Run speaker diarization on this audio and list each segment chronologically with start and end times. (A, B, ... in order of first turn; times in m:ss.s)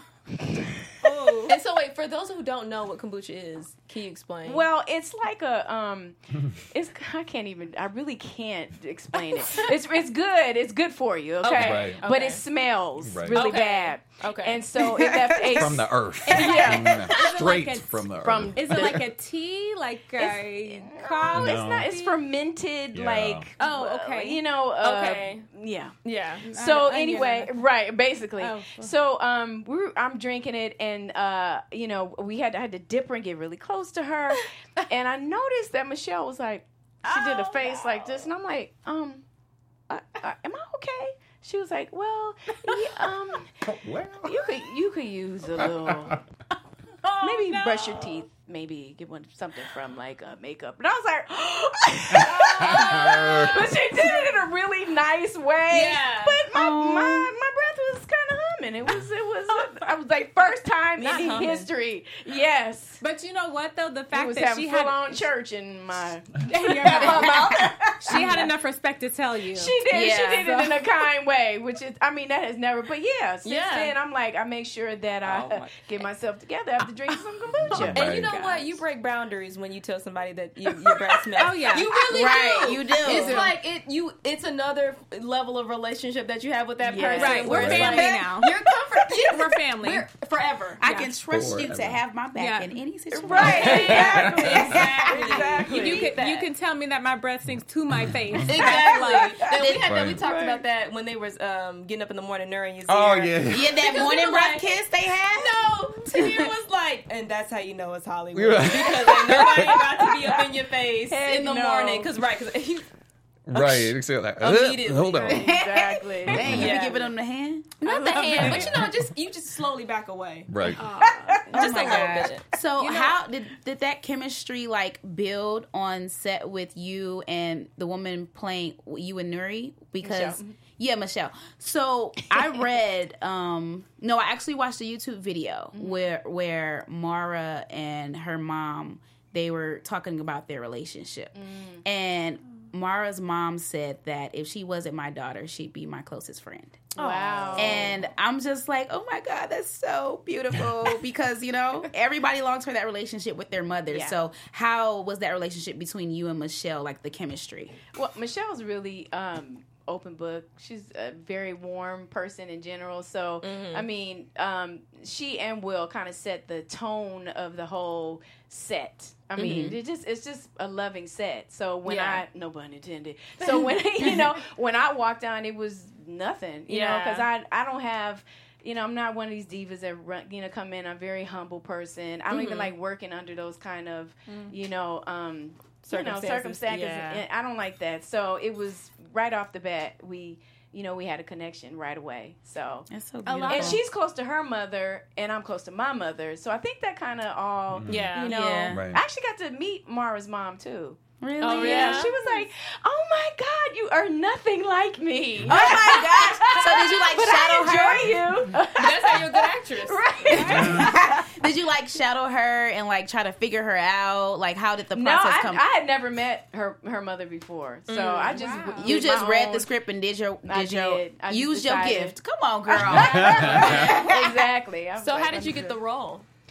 0:00.3-0:01.5 A
0:01.0-0:01.5 B
0:01.5-0:04.6 C
0:04.4-0:17.3 A
0:11.4-0:12.4 C
0:11.5-0:12.0 D
0:13.0-0:13.5 D
0:13.3-0:14.6 C
0:15.0-0:15.6 E
0:15.5-0:19.0 D
0:16.3-0:22.2 B
0:18.2-0:19.0 A
0:20.2-0:39.2 A
0:21.3-0:21.9 D
0:22.9-0:23.5 D
0:23.6-0:24.4 B
0:24.8-0:25.5 C
0:26.0-0:26.4 C
0:26.4-0:27.6 B
0:28.4-0:28.9 B
0:37.0-0:38.2 C
0:39.9-0:43.6 A
0:43.6-0:44.4 D
0:44.2-0:46.2 A
0:45.6-0:46.2 D
0:47.0-0:48.2 B
0:47.2-1:03.0 A
0:52.2-0:53.6 D
0:52.7-0:53.1 B
0:55.7-0:56.4 C
0:56.5-0:57.3 E
0:59.5-0:59.9 B
1:01.0-1:01.7 C
1:03.0-1:05.2 B
1:04.1-1:08.4 A
1:06.4-1:10.8 B
1:06.9-1:07.7 C
1:07.3-1:07.8 E
1:09.5-1:18.8 A
1:09.9-1:10.7 E
1:13.4-1:14.0 C
1:15.2-1:15.6 B
1:17.7-1:18.3 D
1:17.9-1:30.8 C
1:20.8-1:21.2 A
1:21.4-1:21.9 B
1:22.1-1:23.5 E
1:23.1-1:23.4 A
1:26.8-1:28.0 A
1:27.2-1:28.5 B
1:27.5-1:28.0 D
1:27.5-1:28.3 E
1:29.2-1:30.1 B
1:30.8-1:35.5 E
1:30.8-1:31.1 B
1:31.3-1:32.0 D
1:32.4-1:32.8 B
1:33.1-1:36.5 C
1:33.3-1:36.1 A
1:33.6-1:34.7 D
1:35.7-1:39.4 B
1:38.5-1:44.8 C
1:39.4-1:40.0 E
1:39.5-1:40.6 A
1:39.8-1:40.3 D
1:42.9-1:43.8 D
1:43.5-1:46.4 E
1:45.3-1:52.9 C
1:48.3-1:50.0 D
1:49.7-1:50.4 A
1:51.1-1:52.1 A
1:53.5-1:55.5 D
1:53.5-1:55.4 C
1:55.2-1:56.8 A
1:55.3-1:58.8 E
1:56.2-1:56.7 D
1:56.4-1:57.1 C
1:57.8-2:00.5 C
1:58.0-1:58.6 B
1:58.4-1:58.9 D
2:00.5-2:00.8 D
2:00.8-2:01.8 A
2:01.0-2:26.9 E
2:01.5-2:02.4 C
2:02.8-2:03.2 B
2:10.0-2:10.5 A
2:15.7-2:16.1 A
2:21.3-2:21.8 A
2:26.9-2:28.0 A
2:27.0-2:27.8 C
2:27.6-2:37.7 E
2:33.9-2:34.2 A
2:37.9-3:12.9 A
2:43.4-2:43.9 C
2:49.3-2:49.7 C
2:49.4-2:49.8 E
2:51.8-2:52.2 C
2:56.7-2:57.3 C
3:02.3-3:02.7 C
3:04.3-3:04.5 B
3:05.9-3:07.2 C
3:12.9-3:13.8 E
3:13.2-3:13.8 B
3:13.5-3:31.3 A
3:17.7-3:18.2 D
3:17.9-3:18.4 C
3:18.2-3:18.9 E
3:18.7-3:19.0 D
3:21.2-3:22.2 E
3:21.4-3:22.1 C
3:25.4-3:28.3 E
3:28.7-3:30.0 C
3:30.3-3:30.9 B
3:30.4-3:35.6 E
3:34.9-3:39.7 A
3:37.9-3:38.4 C
3:38.3-3:38.9 B
3:38.8-3:44.5 E
3:40.4-3:42.2 A
3:42.7-3:45.8 A
3:42.9-3:43.9 D
3:43.0-3:44.0 C
3:45.0-3:46.2 C